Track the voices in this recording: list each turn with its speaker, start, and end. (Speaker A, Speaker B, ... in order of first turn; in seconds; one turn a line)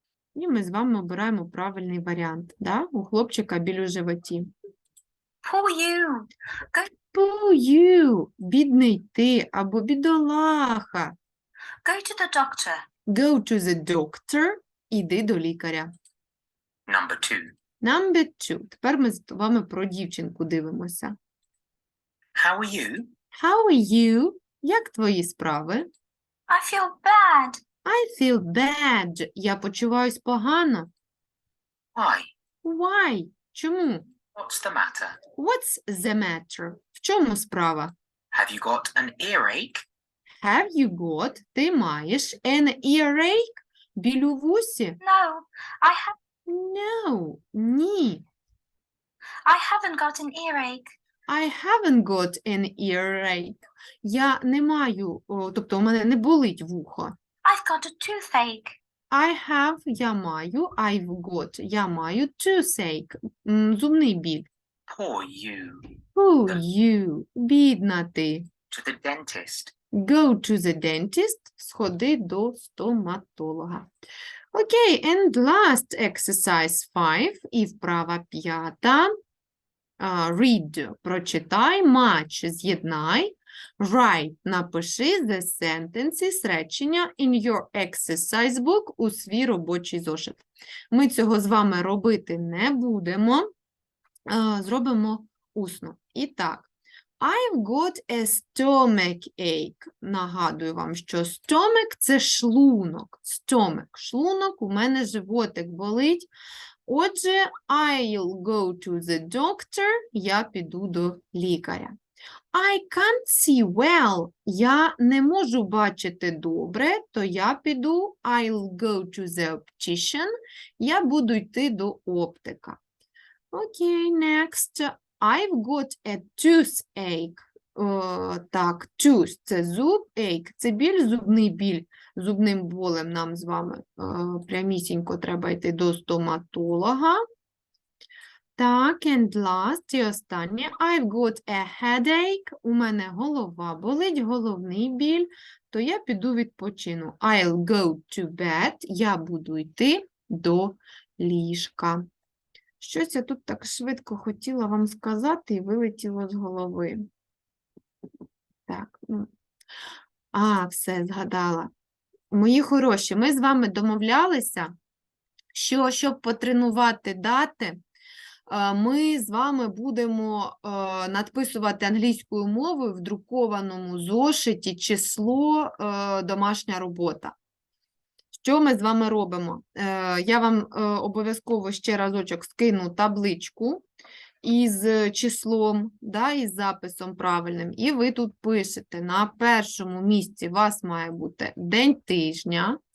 Speaker A: 0.3-4.5
Speaker B: 5.4-6.9
Speaker A: 7.1-11.1
Speaker B: 11.8-12.8
Speaker A: 13.1-15.9
Speaker C: 16.9-17.5
Speaker A: 17.8-21.1
Speaker C: 22.4-23.1
Speaker A: 23.4-25.9
Speaker B: 26.5-27.6
Speaker A: 27.8-30.9
Speaker C: 31.9-32.3
Speaker A: 32.6-34.0
Speaker C: 34.3-35.2
Speaker A: 35.3-37.9
Speaker C: 38.3-39.8
Speaker A: 40.4-45.0
Speaker B: 45.0-46.1
Speaker A: 46.5-48.2
Speaker B: 49.4-50.9
Speaker A: 51.3-57.1
Speaker B: 57.4-58.7
Speaker A: 59.1-64.5
Speaker C: 64.9-65.9
Speaker A: 66.1-68.5
Speaker C: 68.7-69.7
Speaker A: 69.9-73.9
Speaker A: 74.5-79.1
Speaker A: 80.0-93.5
Speaker A: 94.3-96.7
Speaker A: 97.2-106.3
Speaker A: 106.8-111.9
Speaker A: 112.5-120.3
Speaker A: 120.8-122.8
Speaker A: 123.5-137.2
Speaker A: 138.6-152.0
Speaker A: 152.8-157.1
Speaker A: 158.7-159.3
Speaker A: 160.3-161.7
Speaker A: 162.3-164.7
Speaker A: 165.5-167.8
Speaker A: 168.5-177.3
Speaker A: 178.3-183.8
Speaker A: 184.4-192.8